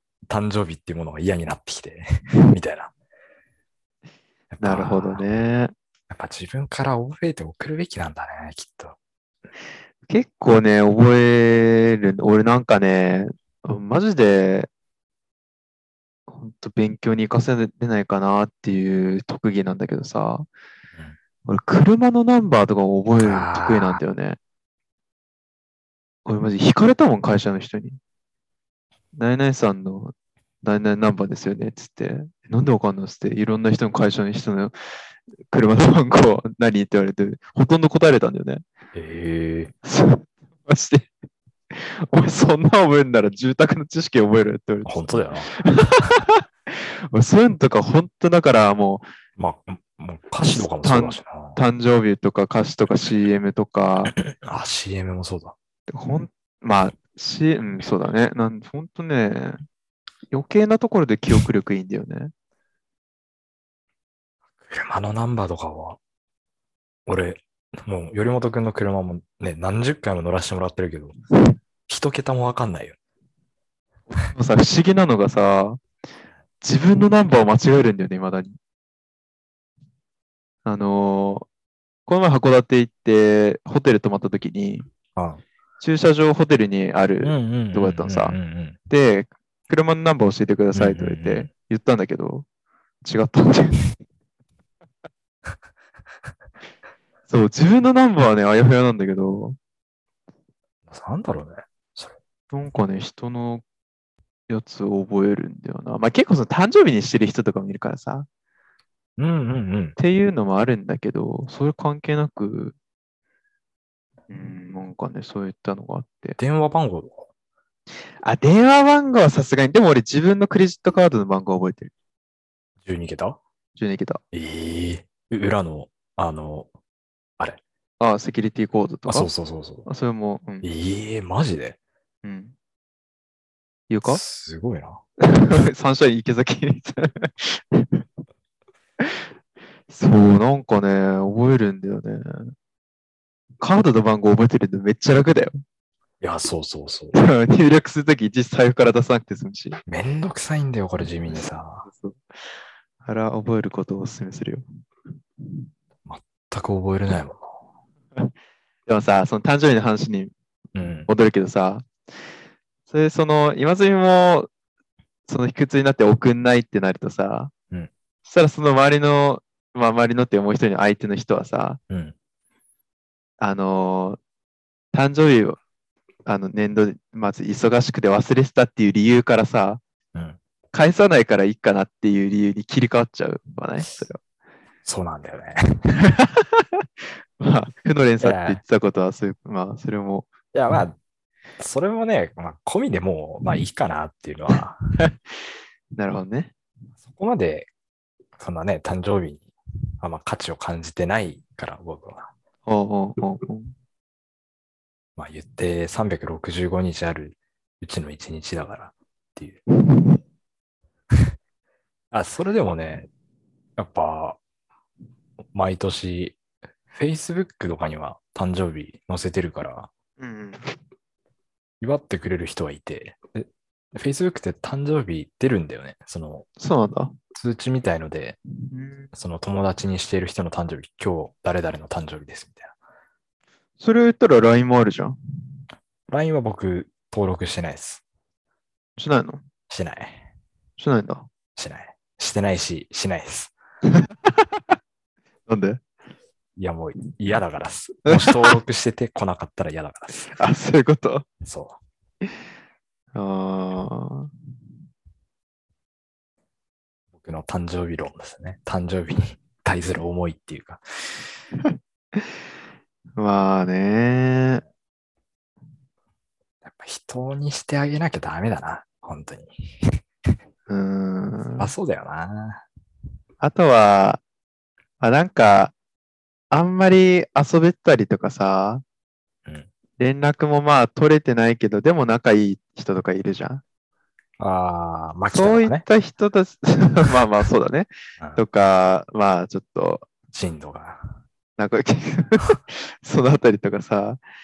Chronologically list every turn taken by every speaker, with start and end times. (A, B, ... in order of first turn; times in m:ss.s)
0:00.3-0:02.9 A
0:04.5-0:05.2 A
0:04.6-0:05.7 B
0:06.1-0:09.0 A
0:10.1-0:14.7 B
0:16.3-0:20.5 B
0:21.4-0:24.4 B
0:23.2-0:24.0 A
0:26.2-0:28.0 B
0:29.1-0:34.7 B
0:35.5-0:38.6 B
0:38.9-0:39.7 A
0:39.8-0:41.1 B
0:41.7-0:49.0 B
0:44.8-0:45.5 A
0:49.4-0:51.6 A
0:50.8-0:54.1 B
0:54.1-0:55.5 A
0:55.9-0:59.6 B
1:00.3-1:02.3 B
1:04.7-1:06.0 A
1:07.1-1:11.1 A
1:11.9-1:13.0 A
1:14.1-1:15.8 B
1:16.6-1:18.6 B
1:20.6-1:21.5 B
1:22.1-1:24.9 B
1:25.2-1:25.4 A
1:25.8-1:28.4 B
1:27.2-1:28.8 A
1:28.9-1:32.4 B
1:30.7-1:31.5 A
1:33.0-1:33.8 B
1:37.3-1:39.6 B
1:40.9-1:42.1 A
1:42.5-1:43.6 B
1:44.5-1:48.3 B
1:49.2-1:50.0 A
1:50.0-1:52.8 B
1:54.3-1:56.4 B
1:56.4-1:57.2 A
1:58.2-2:01.9 B
2:02.8-2:03.4 A
2:03.8-2:04.2 B
2:04.3-2:06.7 A
2:08.0-2:09.3 B
2:09.1-2:09.8 A
2:09.8-2:10.6 B
2:10.6-2:11.8 A
2:12.2-2:12.5 B
2:13.9-2:14.2 B
2:14.0-2:15.0 A
2:15.2-2:18.0 B
2:19.0-2:19.2 B
2:19.9-2:22.5 B
2:23.6-2:25.6 B
2:26.2-2:27.2 A
2:27.1-2:29.8 B
2:29.9-2:31.8 A
2:31.3-2:32.2 B
2:33.0-2:34.6 B
2:36.0-2:37.6 A
2:38.9-2:40.3 B
2:40.7-2:41.1 A
2:41.1-2:41.9 B
2:42.9-2:44.5 B
2:45.3-2:47.5 B
2:48.2-2:51.8 B
2:51.9-2:52.1 A
2:53.4-2:54.2 B
2:54.9-2:55.6 B
2:56.2-2:59.8 B
3:00.7-3:04.2 B
3:04.8-3:05.8 A
3:06.0-3:06.8 B
3:07.4-3:10.3 B
3:08.2-3:08.6 A
3:10.5-3:11.0 A
3:11.6-3:14.8 A
3:15.9-3:16.5 B
3:17.1-3:17.7 A
3:18.4-3:19.5 A
3:20.0-3:22.3 A
3:22.6-3:23.7 B
3:25.2-3:29.6 A
3:29.8-3:30.2 B
3:32.1-3:33.1 A
3:33.8-3:34.4 A
3:35.5-3:36.4 A
3:36.9-3:39.9 A
3:40.2-3:40.7 B
3:41.8-3:46.5 A
3:46.6-3:47.1 B
3:47.3-3:48.4 A
3:48.6-3:49.1 B
3:49.1-3:52.7 A
3:53.8-3:55.2 B
3:56.1-3:58.0 A
3:59.0-3:59.4 B
3:59.7-4:00.2 A
4:00.8-4:01.3 B
4:01.5-4:03.5 A
4:03.9-4:04.6 B
4:05.5-4:05.8 B
4:06.6-4:10.3 A
4:08.1-4:08.5 B
4:10.2-4:11.3 B
4:11.4-4:11.8 A
4:13.1-4:14.3 B
4:17.2-4:20.8 A
4:21.6-4:22.4 B
4:23.2-4:24.6 B
4:26.6-4:30.0 A
4:30.7-4:31.7 B
4:31.6-4:32.6 A
4:33.4-4:34.2 B
4:35.0-4:35.7 B
4:36.5-4:38.8 B
4:40.0-4:43.6 B
4:44.4-4:45.8 A
4:45.3-4:50.0 B
4:50.3-4:51.1 A
4:51.6-4:54.2 B